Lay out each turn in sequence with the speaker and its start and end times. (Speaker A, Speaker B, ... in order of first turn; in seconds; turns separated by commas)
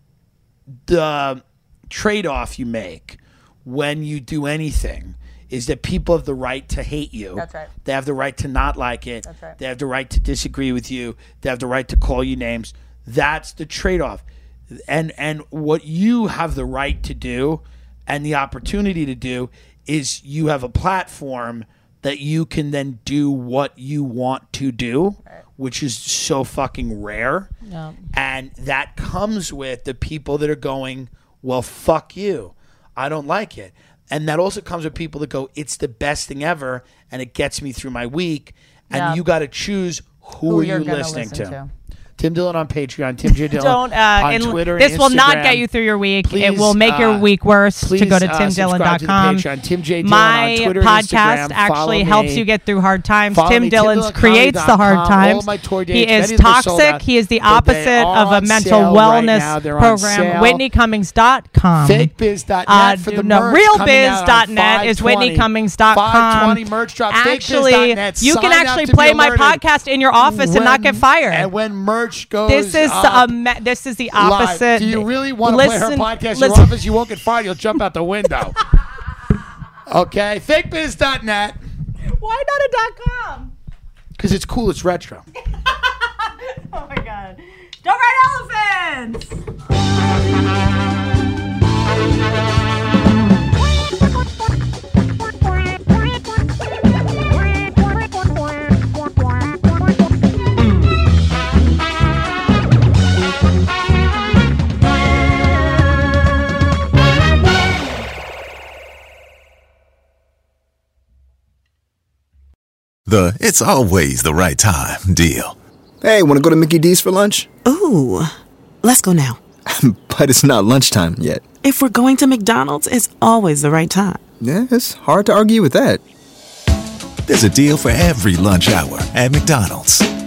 Speaker A: 0.9-27.5, Speaker B: 7.4-7.7, Speaker B: 9.2-9.6, Speaker B: 27.6-28.0, Speaker A: 28.1-41.6, Speaker B: 38.9-39.2, Speaker B: 40.5-41.7, Speaker A: 42.2-45.7, Speaker B: 43.4-49.5, Speaker A: 46.2-47.3, Speaker A: 47.8-52.5, Speaker B: 50.0-62.1, Speaker A: 53.3-60.6, Speaker A: 61.8-69.6, Speaker B: 62.7-71.5, Speaker A: 70.2-73.3, Speaker B: 72.5-76.8, Speaker A: 74.1-78.5, Speaker A: 79.9-81.6, Speaker B: 82.0-83.5, Speaker A: 84.2-85.2, Speaker B: 85.5-89.4, Speaker C: 113.1-115.6, Speaker D: 116.0-117.5, Speaker E: 117.7-119.4, Speaker D: 119.7-121.5, Speaker E: 121.6-124.2, Speaker D: 124.4-126.0, Speaker C: 127.3-130.1